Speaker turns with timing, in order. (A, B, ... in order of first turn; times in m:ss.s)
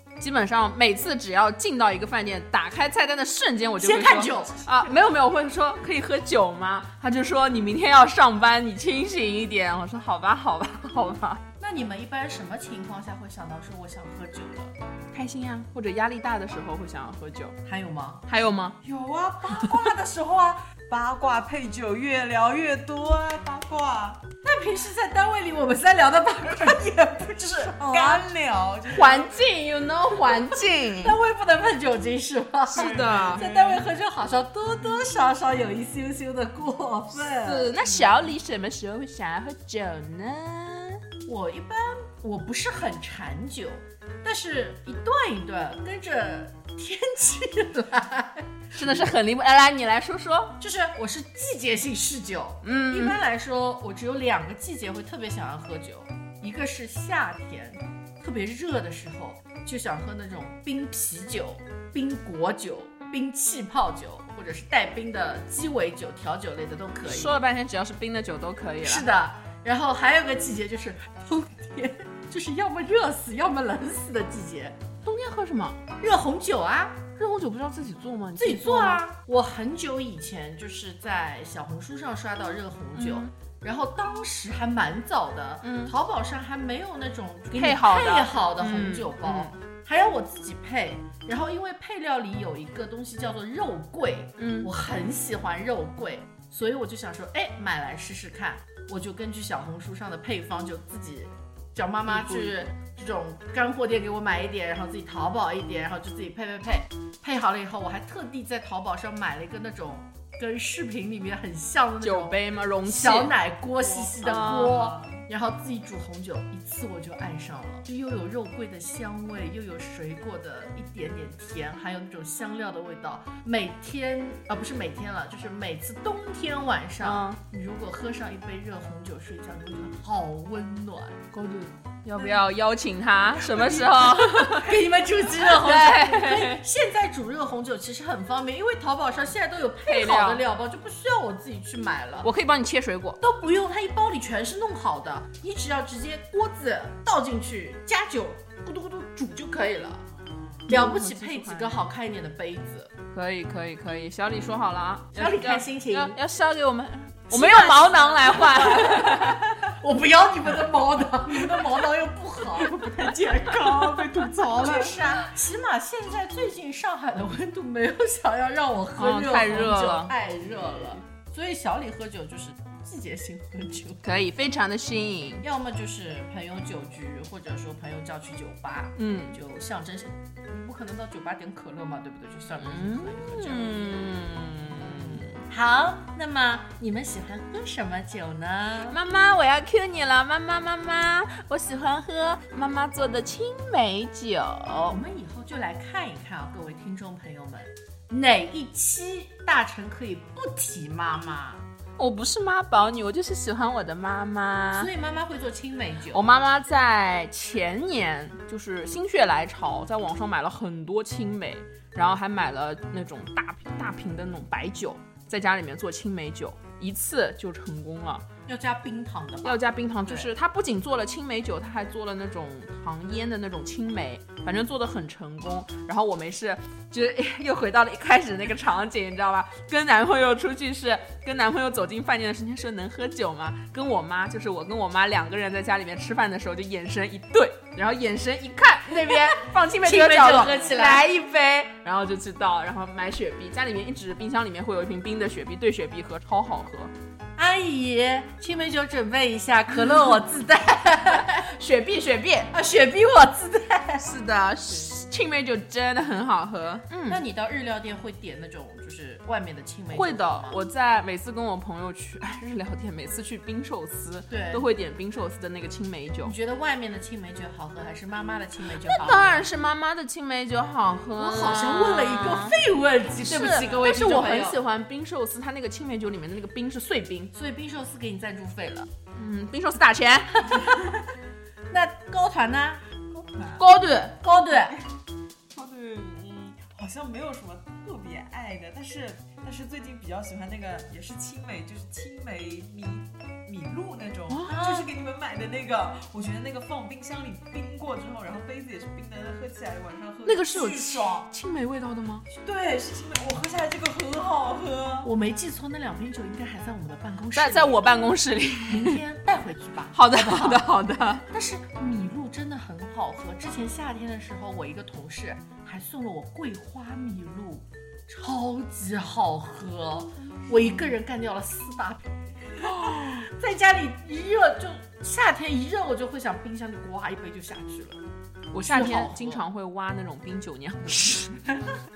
0:00.2-0:11.4 A
0:03.8-0:04.9 B
0:11.6-0:14.7 B
0:15.1-0:17.6 A
0:17.6-0:18.3 B
0:18.3-0:18.8 A
0:18.8-0:24.2 C
0:24.4-0:28.2 B
0:27.5-0:29.4 C
0:28.9-0:31.2 A
0:31.0-0:37.4 B
0:32.7-0:33.9 C
0:32.7-0:33.4 A
0:37.1-0:38.1 C
0:37.4-0:41.0 A
0:41.2-0:48.6 B
0:48.7-0:50.6 A
0:50.6-1:07.4 B
0:52.6-0:53.2 A
1:07.0-1:09.1 A
1:08.8-1:14.8 B
1:15.0-1:15.8 A
1:16.0-1:17.1 B
1:17.2-1:19.0 A
1:18.4-2:11.2 B
1:22.9-1:23.3 A
1:25.6-1:25.9 A
1:27.5-1:29.5 A
1:34.4-1:34.7 A
1:42.1-1:42.5 A
1:52.0-1:53.3 A
1:53.8-1:55.2 C
1:54.2-1:54.8 A
2:07.0-2:07.4 A
2:11.3-2:16.6 A
2:12.2-2:12.4 B
2:13.4-2:22.3 B
2:19.8-2:20.4 A
2:22.2-2:23.2 A
2:23.2-2:30.0 B
2:30.3-2:30.6 C
2:30.7-2:32.9 B
2:30.7-2:31.9 A
2:33.1-2:39.4 A
2:35.1-2:36.2 B
2:37.3-2:43.7 B
2:42.5-2:45.2 C
2:44.5-2:54.0 B
2:49.0-2:50.1 A
2:54.0-2:55.4 A
2:55.4-3:04.1 B
2:59.0-2:59.4 A
3:02.6-3:05.4 A
3:04.7-3:09.0 B
3:08.9-3:15.0 A
3:14.9-3:21.6 B
3:22.0-3:24.9 A
3:24.7-3:26.2 B
3:26.1-3:38.2 A
3:38.4-3:40.3 B
3:39.4-4:06.9 A
3:58.9-4:01.1 B
4:07.4-4:11.5 B
4:11.1-4:12.5 A
4:12.5-4:14.0 B
4:14.0-4:17.2 A
4:17.1-4:20.6 B
4:19.9-4:26.4 A
4:24.3-4:24.7 B
4:26.2-4:29.5 B
4:28.8-4:32.6 A
4:31.1-4:34.6 B
4:33.2-4:37.3 A
4:37.3-4:38.9 B
4:39.1-4:40.8 A
4:40.4-4:40.9 B
4:41.7-4:42.8 B
4:43.1-4:43.7 C
4:43.6-4:44.2 A
4:44.2-4:44.8 B
4:44.5-4:44.9 C
4:45.5-5:01.3 C
4:54.3-4:54.6 A
4:54.5-4:54.9 B
5:00.2-5:02.3 A
5:02.3-5:05.1 C
5:05.0-5:07.8 B
5:07.3-5:09.0 A
5:08.7-5:10.7 B
5:09.9-5:11.2 A
5:11.3-5:22.0 B
5:22.8-5:28.0 B
5:28.5-5:31.6 A
5:28.6-5:29.4 B